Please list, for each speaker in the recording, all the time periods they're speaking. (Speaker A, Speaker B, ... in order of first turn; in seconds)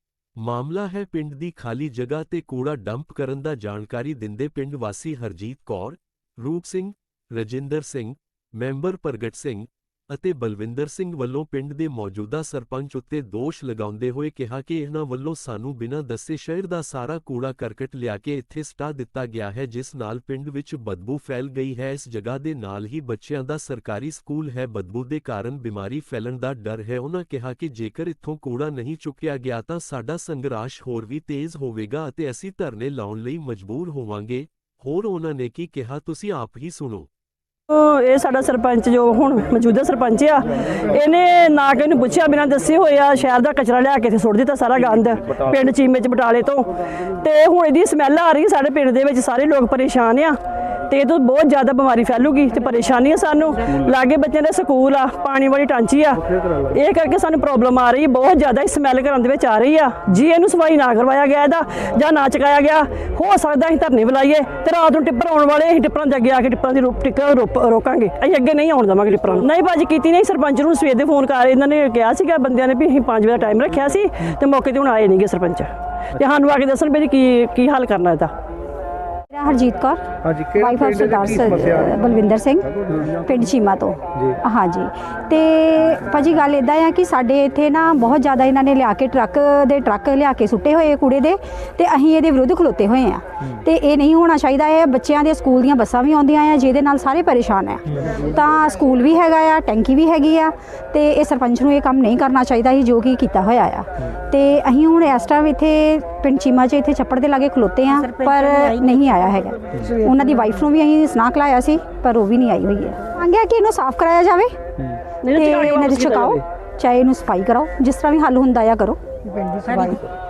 Speaker A: 0.4-37.1
Speaker B: 37.7-78.3, 115.2-116.3
Speaker C: 56.2-56.7, 80.2-81.8, 82.8-83.2
Speaker D: 79.3-80.0, 80.5-82.7, 83.2-114.5, 115.3-119.0